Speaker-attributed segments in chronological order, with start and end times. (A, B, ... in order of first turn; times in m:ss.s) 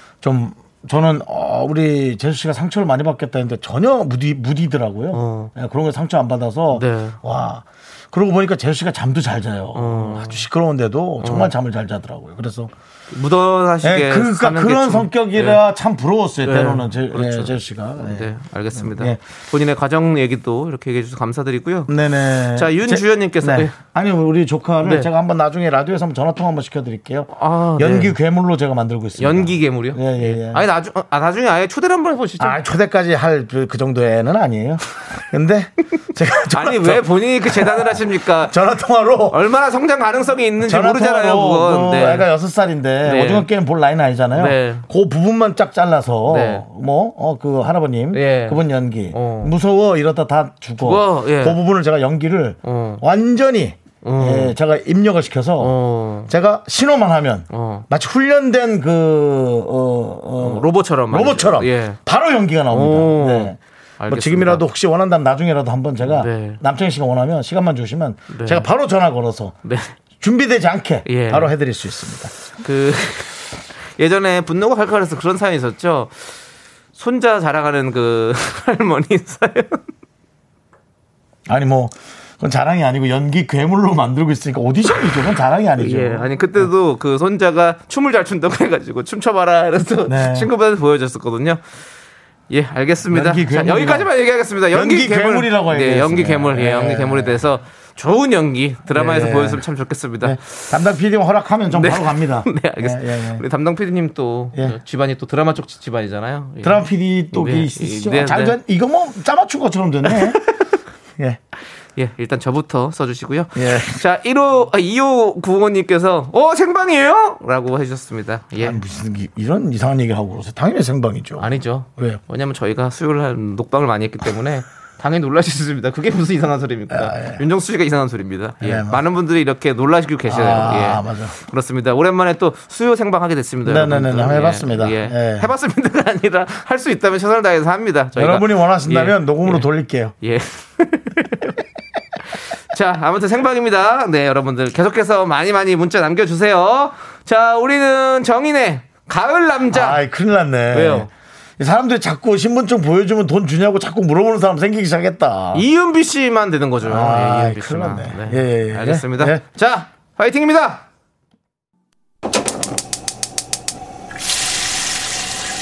0:00.2-0:12.7 A
0:05.1-0:05.5 B
0:06.7-0:07.2 B
0:09.7-0:10.5 B
0:11.2-0:11.5 B
0:13.1-0:15.6 B
0:13.8-0:19.2 A
0:16.4-0:21.9 B
0:21.9-0:30.6 A
0:22.6-0:23.8 B
0:24.8-0:25.1 B
0:27.3-0:28.2 B
0:29.2-0:32.6 B
0:32.4-0:39.4 A
0:36.5-0:38.5 B
0:39.3-0:42.3 B
0:40.6-0:55.8 A
0:43.0-0:43.5 B
0:44.4-0:44.9 B
0:46.3-0:46.7 B
0:48.1-0:48.6 B
0:49.1-0:49.5 B
0:50.8-0:51.6 B
0:52.6-0:53.0 B
0:54.0-0:54.5 B
0:55.6-0:56.3 B
0:56.3-1:09.6 A
0:57.5-0:57.9 B
1:00.4-1:02.0 B
1:02.7-1:04.6 B
1:06.0-1:06.6 B
1:08.3-1:08.7 B
1:09.6-1:10.0 B
1:10.2-1:12.3 A
1:11.1-1:11.5 B
1:12.6-1:13.4 B
1:14.0-1:16.3 B
1:17.0-1:19.8 B
1:21.5-1:26.7 A
1:25.8-1:31.6 B
1:30.1-1:30.5 A
1:32.5-1:40.5 B
1:33.1-1:34.1 A
1:34.7-1:37.4 A
1:38.9-1:39.6 A
1:40.2-1:43.4 A
1:41.7-1:48.6 B
1:46.6-1:50.4 A
1:50.1-1:50.7 B
1:52.0-1:58.8 B
1:53.6-1:54.0 A
1:58.6-2:02.2 A
2:01.4-2:19.7 B
2:06.9-2:07.4 A
2:08.6-2:09.0 A
2:10.3-2:11.4 A
2:13.6-2:15.5 A
2:18.2-2:20.2 A
2:20.2-2:21.6 B
2:22.7-2:30.0 B
2:29.7-2:35.7 A
2:30.7-2:31.1 B
2:35.5-2:40.8 B
2:36.8-2:39.4 A